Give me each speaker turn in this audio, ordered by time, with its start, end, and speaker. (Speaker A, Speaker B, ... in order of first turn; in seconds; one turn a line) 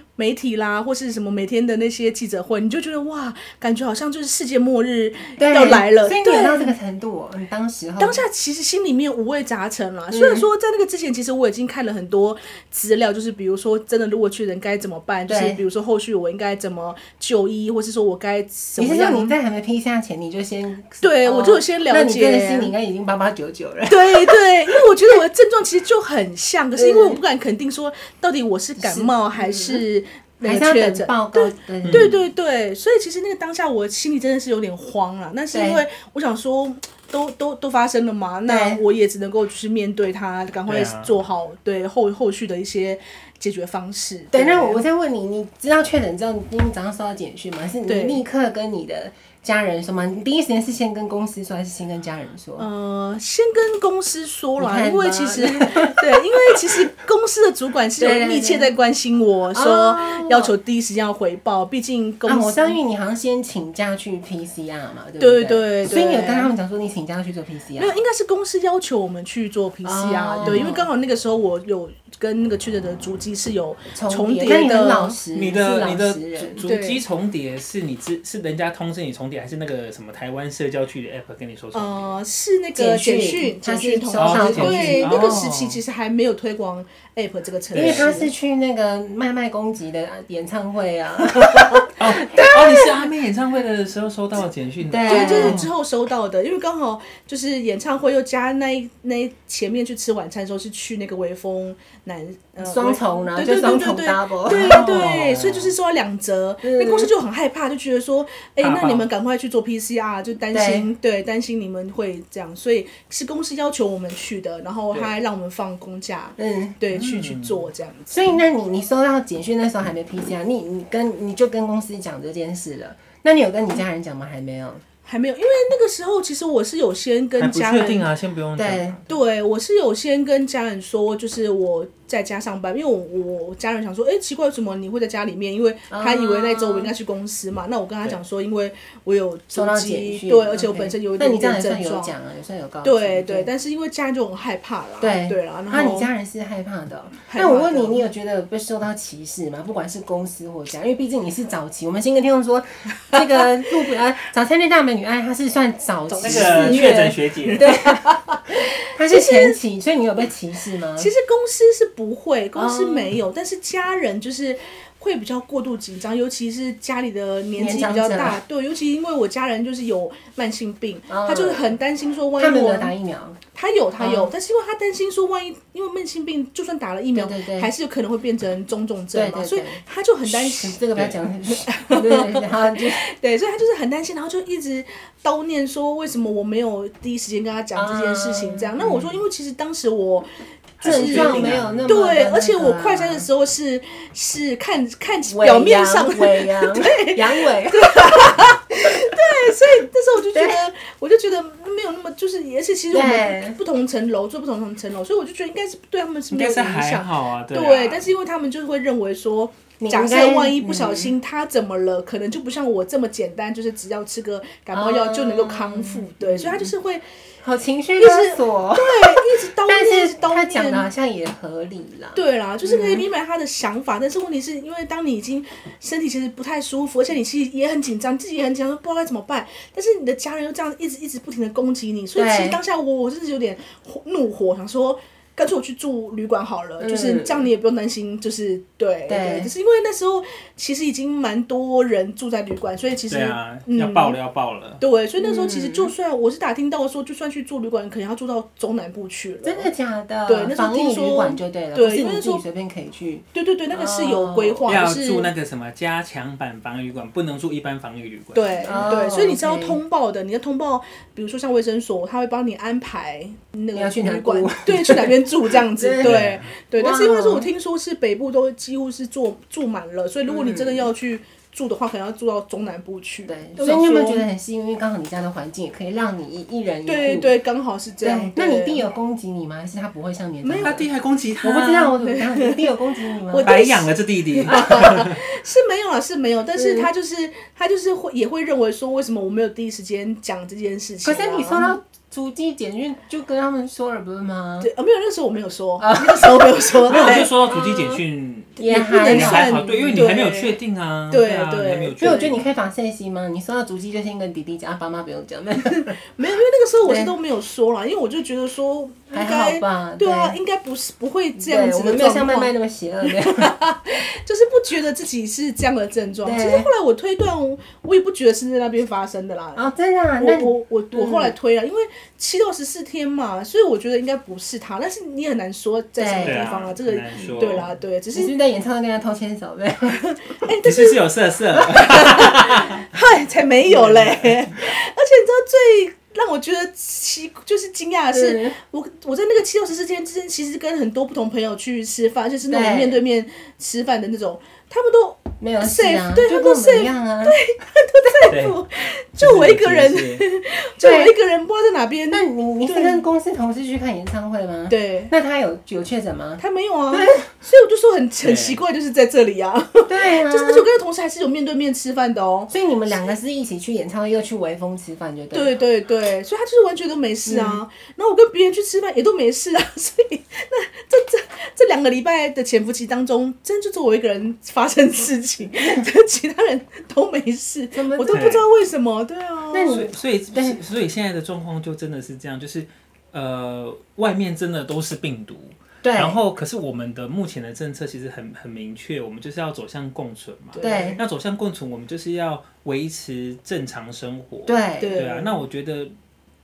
Speaker A: 0.2-6.7
Speaker B: 5.4-8.2
Speaker A: 8.0-19.4
Speaker B: 10.1-10.5
Speaker B: 15.3-15.6
Speaker B: 18.8-24.3
Speaker A: 21.0-22.7
Speaker A: 23.9-44.8
Speaker B: 26.8-27.2
Speaker B: 28.8-29.8
Speaker B: 30.4-32.1
Speaker C: 31.9-32.1
Speaker B: 35.5-35.8
Speaker B: 38.5-38.8
Speaker C: 40.7-41.1
Speaker B: 44.3-52.7
Speaker A: 47.9-48.2
Speaker A: 52.6-62.8
Speaker B: 54.6-56.6
Speaker B: 58.0-58.7
Speaker B: 59.5-60.5
Speaker B: 62.2-68.0
Speaker A: 65.2-66.5
Speaker A: 67.8-75.2
Speaker B: 69.8-70.9
Speaker B: 73.9-76.7
Speaker C: 75.3-82.2
Speaker A: 76.6-77.0
Speaker A: 81.7-88.3
Speaker B: 82.8-85.3
Speaker C: 84.2-85.8
Speaker C: 87.7-88.1
Speaker B: 87.7-92.9
Speaker A: 91.4-91.9
Speaker C: 92.0-95.7
Speaker B: 94.9-95.6
Speaker A: 95.1-118.3
Speaker B: 102.6-104.9
Speaker C: 104.5-105.7
Speaker B: 106.6-107.1
Speaker C: 108.6-109.1
Speaker B: 110.5-110.9
Speaker B: 116.4-116.8
Speaker C: 116.9-117.7
Speaker B: 118.1-124.8
Speaker A: 125.0-128.1
Speaker C: 127.4-129.1
Speaker B: 128.6-129.0
Speaker A: 129.1-142.1
Speaker B: 135.9-136.9
Speaker B: 139.5-143.5
Speaker A: 142.8-146.1
Speaker B: 145.0-158.1
Speaker A: 147.3-148.1
Speaker A: 153.1-153.4
Speaker A: 156.1-159.6
Speaker C: 156.2-157.7
Speaker B: 158.9-161.1
Speaker A: 161.0-172.9
Speaker B: 162.6-163.1
Speaker B: 167.6-168.4
Speaker B: 171.1-171.8
Speaker B: 172.4-173.4
Speaker A: 173.5-180.8
Speaker B: 174.0-174.3
Speaker B: 177.1-177.7
Speaker B: 179.1-183.0
Speaker A: 181.5-190.3
Speaker B: 187.8-189.2
Speaker C: 190.8-192.1
Speaker A: 190.8-217.0
Speaker B: 190.8-193.3
Speaker B: 195.3-198.5
Speaker B: 200.3-200.6
Speaker B: 202.9-203.6
Speaker C: 206.3-208.1
Speaker B: 209.8-211.1
Speaker B: 214.7-216.7
Speaker B: 217.4-223.1
Speaker A: 218.0-220.9
Speaker A: 222.1-244.2
Speaker B: 232.2-232.6
Speaker B: 236.8-237.5
Speaker B: 239.1-239.5
Speaker C: 243.1-244.8
Speaker A: 244.8-249.7
Speaker B: 245.2-245.9
Speaker B: 249.4-254.7
Speaker A: 250.2-252.4
Speaker A: 253.3-255.3
Speaker C: 254.7-258.7
Speaker A: 258.3-274.2
Speaker B: 258.6-259.8
Speaker B: 263.7-267.5
Speaker C: 266.0-266.4
Speaker B: 270.3-270.9
Speaker B: 273.2-277.3
Speaker A: 276.9-278.9
Speaker B: 278.0-280.9
Speaker A: 280.4-280.8
Speaker C: 280.6-282.0
Speaker B: 281.4-283.7
Speaker A: 282.0-282.7
Speaker A: 283.3-291.8
Speaker C: 283.4-285.2
Speaker B: 286.6-286.9
Speaker B: 291.0-294.7
Speaker A: 294.6-297.3
Speaker B: 295.8-298.0
Speaker C: 296.9-302.4
Speaker B: 298.6-300.1
Speaker A: 298.6-300.6
Speaker A: 301.1-302.3
Speaker B: 302.0-306.0
Speaker A: 305.7-312.5
Speaker B: 306.8-307.1
Speaker B: 309.1-310.4
Speaker B: 311.4-313.5
Speaker A: 313.0-319.6
Speaker B: 316.2-316.7
Speaker B: 319.6-321.3
Speaker A: 320.2-328.3
Speaker B: 326.0-326.5
Speaker C: 326.2-327.7
Speaker B: 327.2-327.6
Speaker B: 328.1-330.3
Speaker A: 330.4-331.0
Speaker C: 330.6-332.8
Speaker A: 331.7-353.0
Speaker C: 333.7-334.5
Speaker B: 338.1-338.6
Speaker B: 342.5-343.0
Speaker B: 345.4-347.4
Speaker C: 348.3-348.6
Speaker C: 349.2-350.2
Speaker B: 350.8-351.1
Speaker B: 352.1-357.3
Speaker A: 354.7-355.1
Speaker A: 356.4-362.5
Speaker C: 358.2-358.6
Speaker B: 359.9-360.7
Speaker B: 362.5-365.6
Speaker A: 365.3-379.9
Speaker B: 367.3-367.6
Speaker B: 377.7-378.2
Speaker C: 378.1-378.4
Speaker B: 379.5-380.6
Speaker C: 379.7-395.9
Speaker B: 385.8-386.2
Speaker A: 390.5-391.0
Speaker B: 390.6-391.0
Speaker B: 394.5-395.0
Speaker A: 394.8-395.4